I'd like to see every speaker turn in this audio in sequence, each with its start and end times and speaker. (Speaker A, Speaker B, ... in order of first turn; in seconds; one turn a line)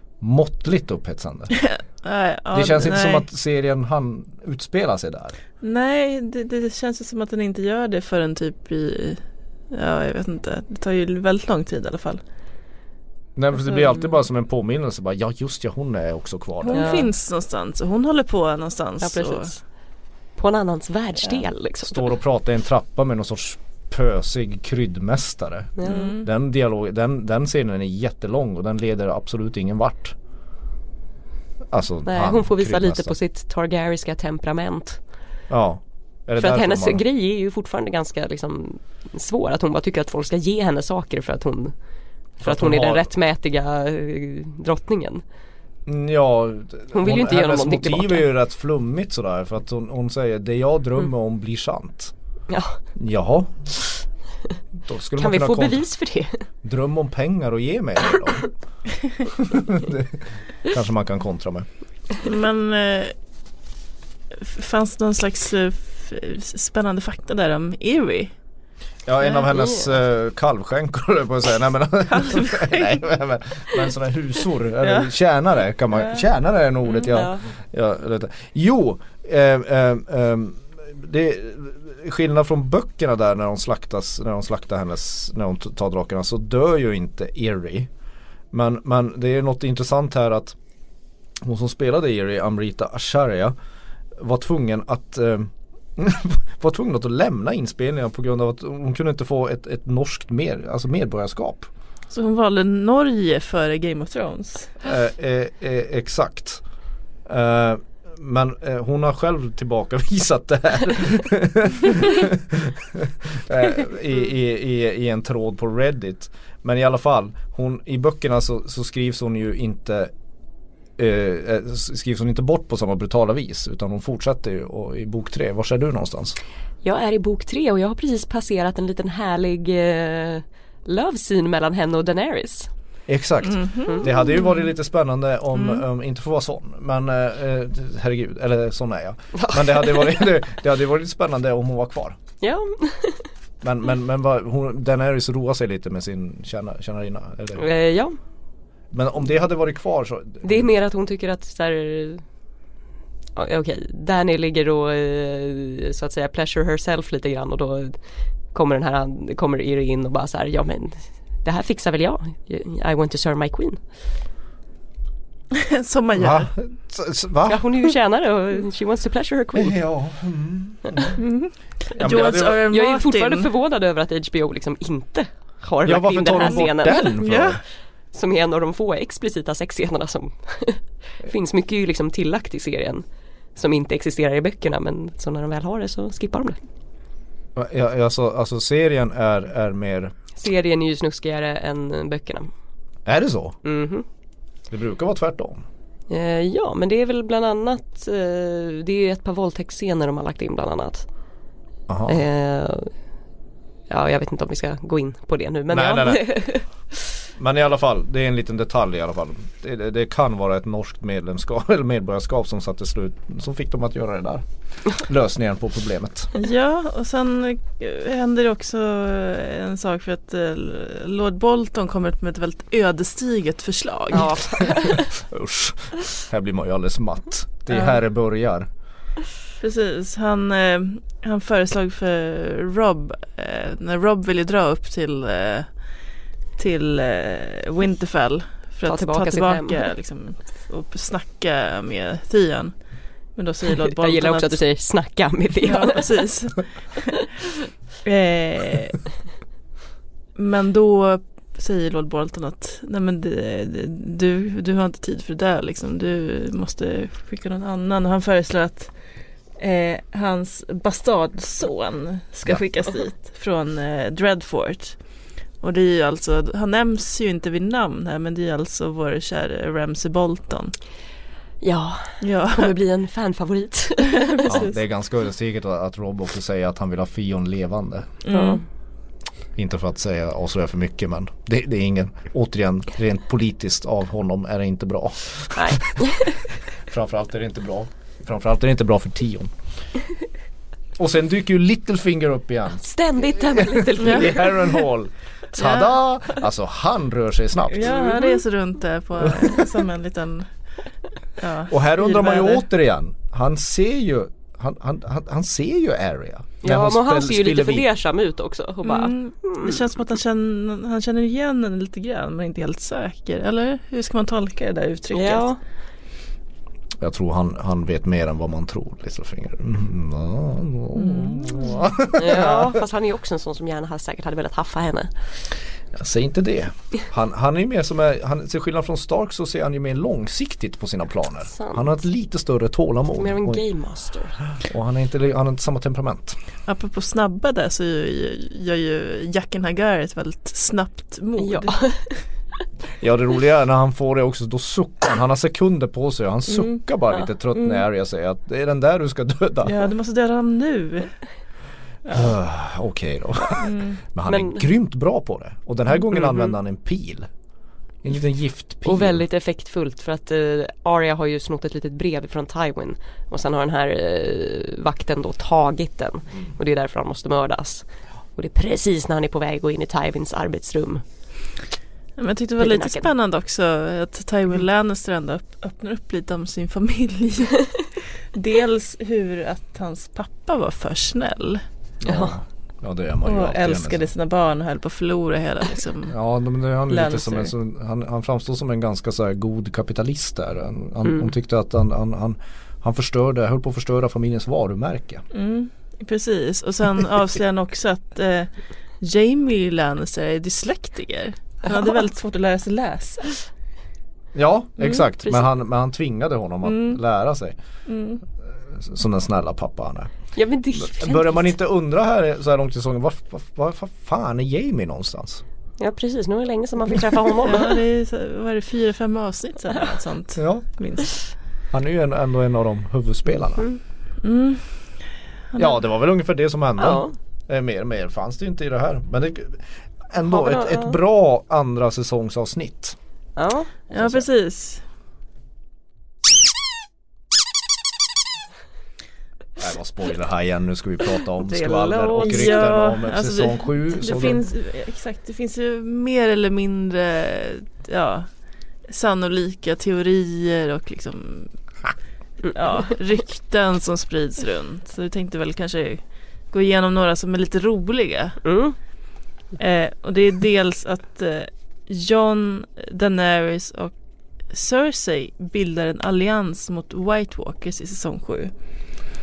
Speaker A: 0.2-1.5
Speaker B: 1.5-3.2
Speaker A: 2.5-5.4
Speaker B: 5.6-12.2
Speaker A: 13.4-17.1
Speaker B: 16.6-19.5
Speaker C: 16.7-17.1
Speaker C: 19.0-19.6
Speaker C: 20.4-22.1
Speaker A: 21.9-30.2
Speaker C: 25.8-26.2
Speaker B: 25.8-26.3
Speaker A: 31.7-33.1
Speaker C: 32.1-35.0
Speaker A: 35.5-37.0
Speaker C: 36.4-41.7
Speaker C: 42.4-45.2
Speaker A: 42.4-43.1
Speaker A: 45.9-52.1
Speaker C: 46.9-48.3
Speaker C: 52.5-52.8
Speaker A: 53.0-53.7
Speaker A: 54.9-55.8
Speaker C: 55.2-56.4
Speaker A: 56.6-58.5
Speaker A: 59.3-61.7
Speaker B: 62.2-63.1
Speaker B: 64.4-68.3
Speaker A: 69.1-87.9
Speaker C: 69.4-69.9
Speaker B: 72.1-73.0
Speaker B: 74.8-75.1
Speaker C: 77.0-77.5
Speaker A: 88.5-90.6
Speaker A: 91.4-93.5
Speaker A: 94.2-101.7
Speaker B: 102.1-104.8
Speaker A: 104.8-106.6
Speaker A: 107.3-120.1
Speaker A: 121.0-126.4
Speaker C: 126.8-132.7
Speaker A: 133.1-142.2
Speaker B: 133.5-134.6
Speaker B: 135.6-135.8
Speaker C: 139.4-140.2
Speaker C: 142.4-143.2
Speaker A: 143.6-147.7
Speaker C: 147.6-148.2
Speaker A: 148.9-150.7
Speaker C: 150.4-152.2
Speaker C: 153.4-158.0
Speaker C: 158.5-163.8
Speaker B: 165.5-166.5
Speaker A: 166.2-167.9
Speaker C: 167.5-169.8
Speaker A: 169.6-171.2
Speaker B: 171.2-173.5
Speaker A: 172.0-172.7
Speaker C: 172.1-177.2
Speaker A: 175.9-177.6
Speaker B: 177.2-177.6
Speaker C: 178.1-183.0
Speaker C: 183.6-186.6
Speaker A: 187.6-190.1
Speaker C: 190.3-192.5
Speaker A: 193.1-193.6
Speaker C: 193.6-194.1
Speaker A: 194.7-195.6
Speaker C: 196.1-201.1
Speaker A: 201.9-202.2
Speaker C: 202.1-202.9
Speaker C: 203.9-206.7
Speaker A: 205.7-206.3
Speaker A: 207.4-216.3
Speaker B: 216.3-224.4
Speaker C: 224.1-225.1
Speaker A: 224.4-228.7
Speaker B: 227.7-228.0
Speaker B: 229.6-235.7
Speaker B: 236.6-242.7
Speaker C: 238.9-239.9
Speaker B: 243.4-244.6
Speaker C: 243.7-246.1
Speaker B: 245.6-247.5
Speaker B: 248.0-249.0
Speaker B: 250.4-258.9
Speaker B: 259.6-265.0
Speaker B: 265.6-270.7
Speaker C: 271.6-274.7
Speaker B: 272.2-272.8
Speaker B: 274.2-274.7
Speaker A: 274.5-278.1
Speaker B: 278.2-278.6
Speaker C: 278.3-278.6
Speaker A: 279.6-289.5
Speaker C: 285.6-286.4
Speaker A: 291.0-292.8
Speaker C: 292.8-294.8
Speaker A: 293.4-298.0
Speaker B: 294.0-294.4
Speaker B: 295.6-296.0
Speaker B: 297.7-300.5
Speaker C: 297.8-298.4
Speaker A: 299.2-299.8
Speaker B: 301.4-302.6
Speaker A: 301.7-307.9
Speaker C: 306.6-309.8
Speaker B: 308.8-315.5
Speaker C: 315.1-315.6
Speaker A: 317.0-322.8
Speaker B: 320.9-321.9
Speaker C: 322.1-325.1
Speaker A: 325.9-333.6
Speaker C: 331.5-332.0
Speaker C: 333.2-334.4
Speaker A: 334.6-336.4
Speaker B: 336.7-341.8
Speaker C: 341.4-342.2
Speaker A: 343.0-349.8
Speaker B: 346.5-346.8
Speaker B: 347.6-347.8
Speaker B: 349.6-351.2
Speaker B: 352.1-352.3
Speaker A: 352.1-357.3
Speaker B: 353.6-354.0
Speaker C: 354.3-354.7
Speaker A: 358.0-359.2
Speaker C: 358.9-371.0
Speaker B: 372.2-377.8
Speaker C: 372.6-373.1
Speaker B: 378.3-381.6
Speaker A: 382.0-384.1
Speaker C: 382.1-382.3
Speaker B: 383.2-386.1
Speaker A: 386.1-395.2
Speaker B: 386.9-387.5
Speaker B: 395.3-403.5
Speaker A: 404.4-407.6
Speaker B: 406.6-407.0
Speaker B: 407.9-408.2
Speaker A: 408.7-410.1
Speaker C: 410.4-411.5
Speaker A: 410.8-415.4
Speaker C: 415.8-417.8
Speaker B: 417.4-421.2
Speaker A: 420.4-420.7
Speaker A: 421.7-423.7
Speaker B: 424.2-424.6
Speaker A: 425.6-433.0
Speaker C: 426.8-427.2
Speaker C: 430.2-431.0
Speaker C: 433.4-433.7
Speaker A: 433.9-434.3
Speaker B: 433.9-434.8
Speaker A: 439.6-444.4
Speaker C: 441.4-442.8
Speaker B: 442.2-448.3
Speaker B: 448.9-451.5
Speaker B: 452.5-458.4
Speaker C: 458.4-458.8
Speaker B: 459.6-463.9
Speaker B: 464.5-468.5